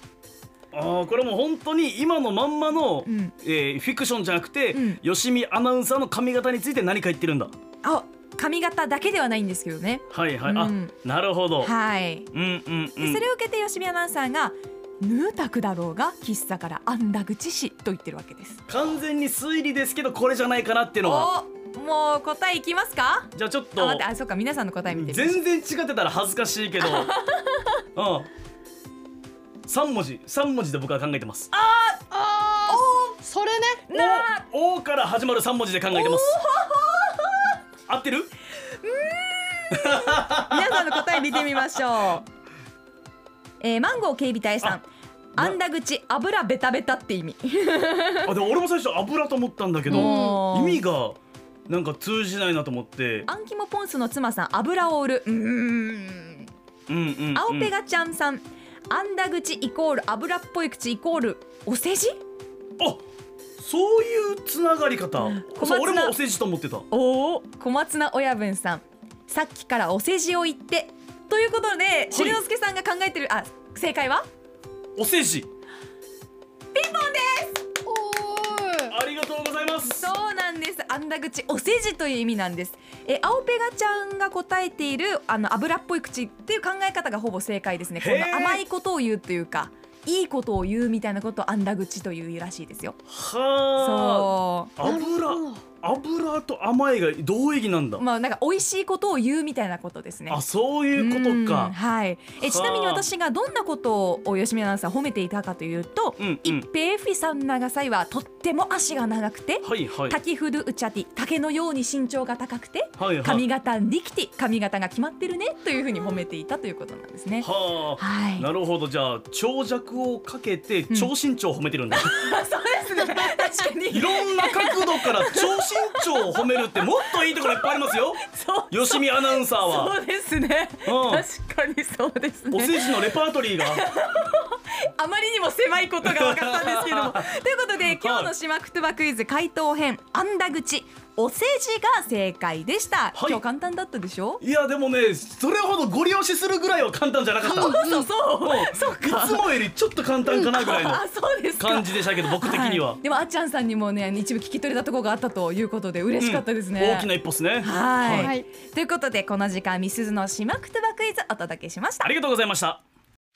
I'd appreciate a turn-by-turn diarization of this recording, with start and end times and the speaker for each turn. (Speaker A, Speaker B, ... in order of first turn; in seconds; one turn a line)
Speaker A: 0.7-7.5
Speaker B: 3.0-3.3
Speaker B: 4.7-5.0
Speaker B: 7.8-10.9
Speaker A: 10.1-11.7
Speaker B: 11.6-12.3
Speaker A: 12.3-13.2
Speaker B: 13.0-18.6
Speaker A: 18.7-21.3
Speaker B: 21.0-25.4
Speaker A: 23.3-24.0
Speaker A: 24.9-27.1
Speaker B: 26.8-27.8
Speaker A: 27.9-28.3
Speaker A: 29.6-31.5
Speaker B: 31.5-32.0
Speaker C: 32.1-33.8
Speaker B: 32.7-33.2
Speaker B: 33.9-34.4
Speaker A: 33.9-36.4
Speaker B: 35.9-37.5
Speaker A: 37.9-38.3
Speaker B: 38.8-42.2
Speaker A: 39.7-41.0
Speaker B: 43.6-48.3
Speaker A: 48.2-51.2
Speaker B: 49.9-50.8
Speaker C: 49.9-50.4
Speaker A: 51.7-53.3
Speaker B: 53.3-56.5
Speaker A: 56.9-57.7
Speaker B: 57.3-62.2
Speaker A: 63.6-66.8
Speaker B: 65.2-66.2
Speaker B: 66.9-74.2
Speaker A: 72.1-72.4
Speaker A: 75.0-75.5
Speaker B: 76.7-77.7
Speaker C: 77.8-78.9
Speaker A: 78.9-80.1
Speaker B: 79.8-93.0
Speaker A: 88.0-88.6
Speaker A: 93.1-98.0
Speaker B: 93.8-94.8
Speaker C: 94.8-95.6
Speaker B: 98.0-100.4
Speaker A: 100.3-101.7
Speaker B: 101.0-117.5
Speaker A: 102.4-103.0
Speaker A: 106.2-106.6
Speaker A: 109.6-110.2
Speaker A: 113.0-113.4
Speaker A: 117.4-122.1
Speaker B: 118.0-118.5
Speaker B: 121.9-126.5
Speaker A: 123.9-129.9
Speaker B: 127.3-132.9
Speaker A: 130.8-131.2
Speaker A: 132.5-133.8
Speaker B: 133.6-144.4
Speaker A: 136.0-137.2
Speaker A: 137.8-138.3
Speaker A: 143.1-143.4
Speaker A: 144.4-151.0
Speaker B: 147.4-149.4
Speaker B: 150.4-157.1
Speaker A: 151.6-153.0
Speaker A: 156.2-158.3
Speaker B: 157.6-162.1
Speaker C: 158.0-158.4
Speaker A: 162.0-162.8